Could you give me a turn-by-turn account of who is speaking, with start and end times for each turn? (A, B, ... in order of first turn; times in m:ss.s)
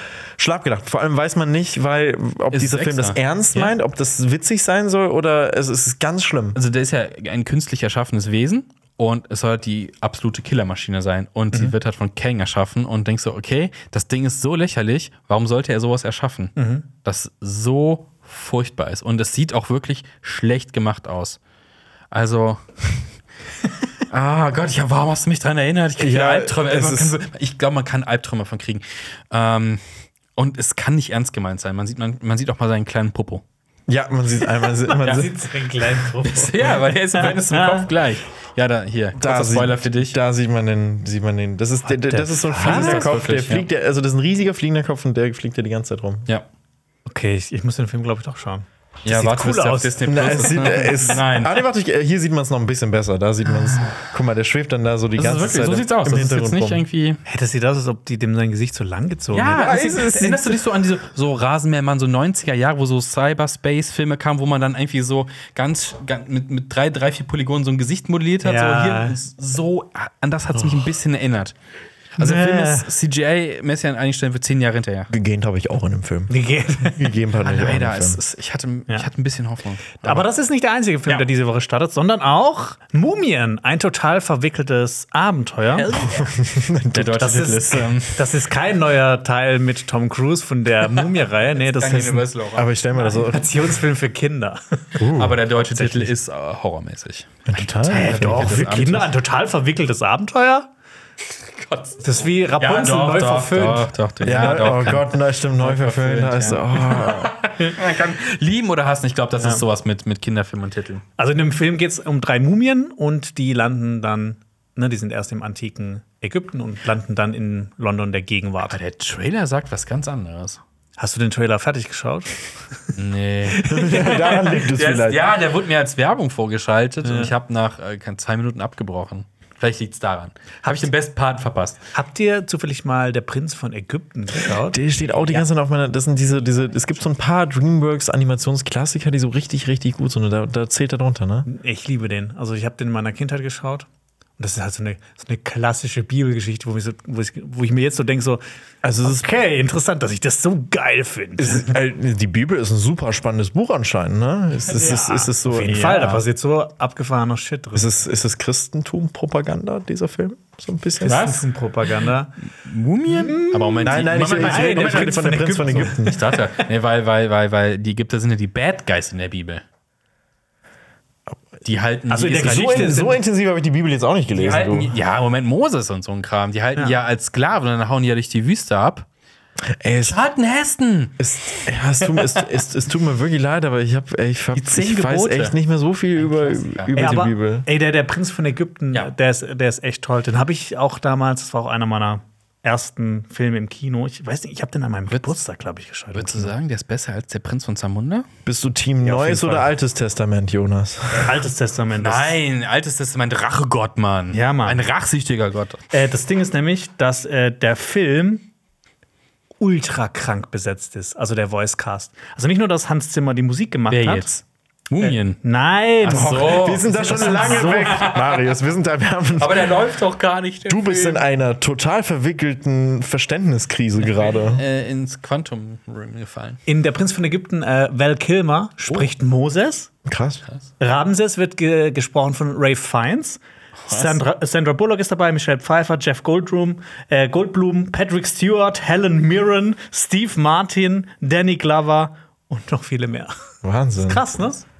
0:00.4-0:06.6 A
0:02.5-0:03.7 B
0:06.5-0:21.4 B
0:16.6-0:16.8 C
0:22.1-0:23.0 B
0:24.1-0:29.8 B
0:26.0-0:27.2 A
0:30.4-0:33.4 B
0:33.9-0:35.4 A
0:34.6-0:37.9 C
0:36.2-0:40.2 B
0:39.2-0:46.3 A
0:41.9-0:43.1 C
0:42.1-0:43.6 B
0:47.0-0:50.8 C
0:49.0-0:51.6 B
0:50.0-0:56.8 A
0:55.2-0:57.2 B
0:57.2-1:00.2 C
0:59.3-1:11.5 B
0:59.5-1:00.6 A
1:08.4-1:09.2 C
1:10.5-1:10.9 A
1:12.2-1:15.1 B
1:12.2-1:12.9 C
1:15.1-1:18.2 A
1:16.3-1:17.1 C
1:17.4-1:20.2 B
1:20.0-1:25.9 C
1:25.7-1:26.3 B
1:25.9-1:27.9 A
1:26.9-1:28.3 B
1:27.2-1:32.3 C
1:31.6-1:32.8 B
1:32.5-1:33.8 A
1:32.9-1:35.0 C
1:35.0-1:35.4 A
1:35.0-1:39.1 B
1:35.6-1:36.1 C
1:37.5-1:38.7 A
1:37.8-1:40.7 C
1:41.5-1:51.0 B
1:42.0-1:43.9 C
1:44.2-1:47.3 A
1:49.4-1:49.6 C
1:51.2-1:58.8 C
1:58.7-2:00.6 B
2:01.0-2:02.9 C
2:02.9-2:11.8 B
2:03.5-2:04.5 C
2:03.6-2:05.2 A
2:07.0-2:07.3 C
2:11.9-2:15.4 C
2:14.5-2:21.5 A
2:21.4-2:23.9 C
2:24.4-2:28.4 C
2:28.8-2:29.3 A
2:29.0-2:31.8 C
2:31.4-2:35.9 A
2:34.7-2:38.0 C
2:35.7-2:36.2 B
2:37.7-2:41.3 A
2:41.0-2:42.3 C
2:41.0-2:41.4 B
2:42.6-2:45.3 B
2:43.1-2:46.6 C
2:43.8-2:46.2 A
2:45.8-2:49.6 B
2:51.6-2:53.0 B
2:52.1-2:53.2 C
2:52.4-2:55.0 A
2:54.3-2:59.0 B
2:59.7-3:00.2 A
3:00.0-3:01.2 B
3:01.2-3:07.7 A
3:02.0-3:02.4 B
3:04.5-3:05.6 B
3:06.1-3:07.1 B
3:06.9-3:16.5 C
3:16.1-3:18.3 B
3:18.4-3:21.4 A
3:19.0-3:19.7 C
3:21.1-3:22.4 C
3:22.0-3:25.8 B
3:24.3-3:24.8 C
3:25.9-3:28.5 C
3:29.6-3:34.3 C
3:33.9-3:35.4 B
3:35.0-3:38.0 C
3:36.0-3:38.5 B
3:36.1-3:39.7 A
3:39.4-3:41.2 B
3:40.7-3:44.6 A
3:44.0-3:46.6 B
3:46.6-3:49.9 C
3:50.0-3:50.4 A
3:50.8-4:04.6 C
3:53.8-3:54.2 B
4:03.6-4:04.3 A